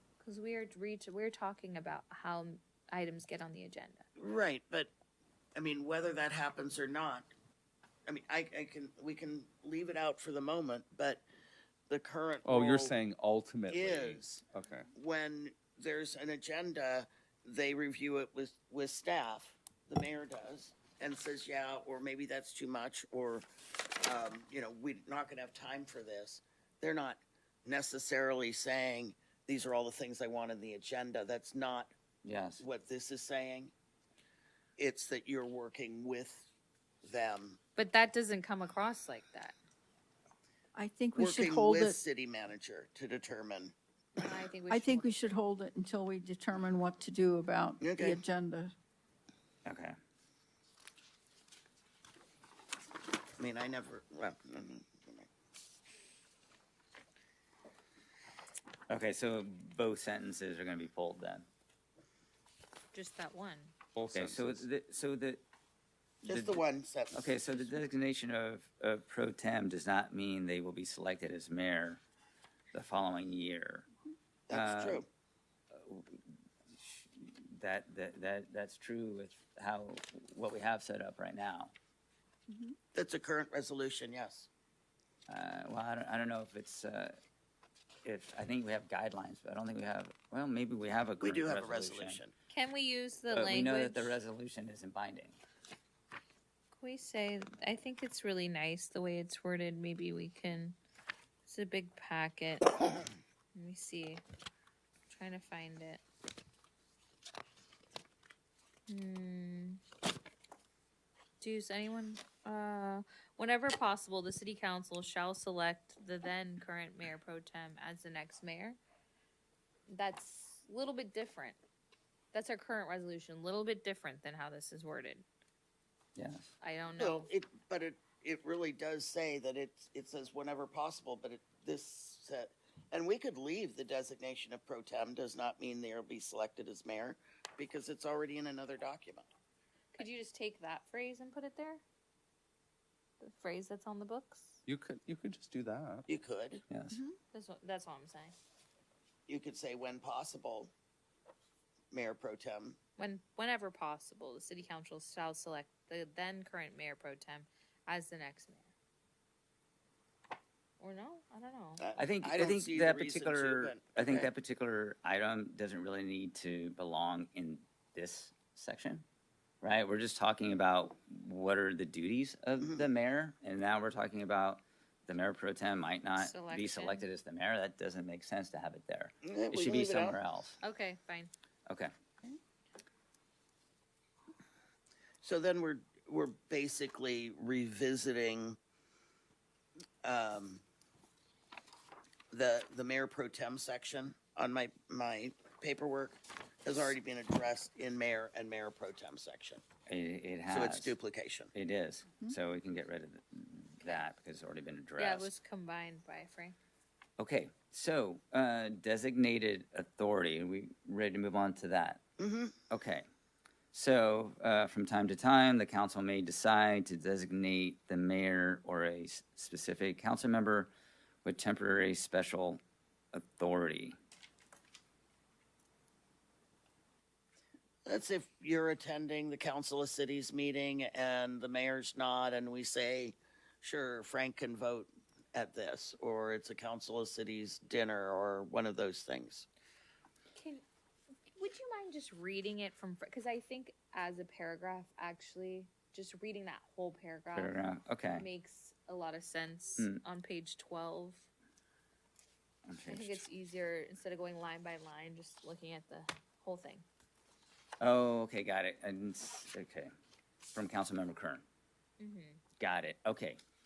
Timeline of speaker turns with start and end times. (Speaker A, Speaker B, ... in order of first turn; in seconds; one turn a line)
Speaker A: 0.2-4.1
Speaker B: 4.2-4.9
Speaker B: 5.6-7.3
Speaker B: 8.1-11.2
Speaker B: 11.9-12.9
Speaker C: 12.4-14.9
Speaker B: 13.7-31.9
Speaker D: 32.2-32.6
Speaker B: 32.6-33.7
Speaker B: 34.8-36.5
Speaker B: 37.0-37.6
Speaker A: 37.8-39.5
Speaker E: 40.8-42.0
Speaker B: 41.2-43.8
Speaker A: 44.2-45.4
Speaker E: 44.7-48.6
Speaker B: 47.8-48.2
Speaker D: 49.6-50.0
Speaker B: 53.4-55.3
Speaker D: 58.9-61.5
Speaker A: 62.9-63.8
Speaker C: 64.0-64.7
Speaker D: 64.1-65.4
Speaker B: 66.2-67.7
Speaker D: 66.3-72.0
Speaker D: 72.7-73.9
Speaker B: 74.5-75.1
Speaker D: 74.5-75.0
Speaker D: 75.7-76.2
Speaker D: 76.8-81.7
Speaker B: 82.9-84.5
Speaker D: 85.3-87.2
Speaker D: 88.0-92.2
Speaker B: 91.2-92.3
Speaker A: 92.5-94.2
Speaker D: 93.3-95.4
Speaker A: 96.8-100.8
Speaker A: 101.5-104.2
Speaker A: 105.1-106.0
Speaker A: 108.9-109.8
Speaker A: 111.4-118.8
Speaker A: 119.9-121.6
Speaker A: 122.3-125.2
Speaker D: 126.2-126.5
Speaker A: 126.6-127.3
Speaker B: 127.0-139.3
Speaker A: 139.9-141.8
Speaker A: 143.2-144.6
Speaker C: 144.7-146.1
Speaker B: 146.1-146.6
Speaker D: 146.7-147.0
Speaker A: 147.3-148.3
Speaker B: 149.3-150.7
Speaker B: 151.9-152.8
Speaker A: 153.0-158.7
Speaker A: 160.8-161.8
Speaker B: 161.8-164.3
Speaker D: 162.0-169.0
Speaker D: 169.6-180.6
Speaker A: 176.2-177.1
Speaker B: 179.2-180.2
Speaker A: 180.6-181.3
Speaker B: 185.2-188.6
Speaker B: 190.0-190.6
Speaker B: 192.3-199.6
Speaker D: 199.9-201.0
Speaker B: 200.5-201.5
Speaker D: 201.5-205.3
Speaker A: 205.0-206.6
Speaker D: 207.2-212.0
Speaker B: 212.2-212.6
Speaker D: 212.7-213.1
Speaker D: 213.7-220.7
Speaker D: 221.2-222.6
Speaker D: 223.1-223.9
Speaker B: 227.9-239.5
Speaker A: 240.3-240.6
Speaker A: 241.3-247.6
Speaker D: 247.3-248.3
Speaker A: 248.2-251.3
Speaker D: 252.7-253.2
Speaker A: 252.8-256.9
Speaker D: 257.8-259.9
Speaker D: 260.5-261.4
Speaker A: 262.0-262.4
Speaker D: 262.6-263.4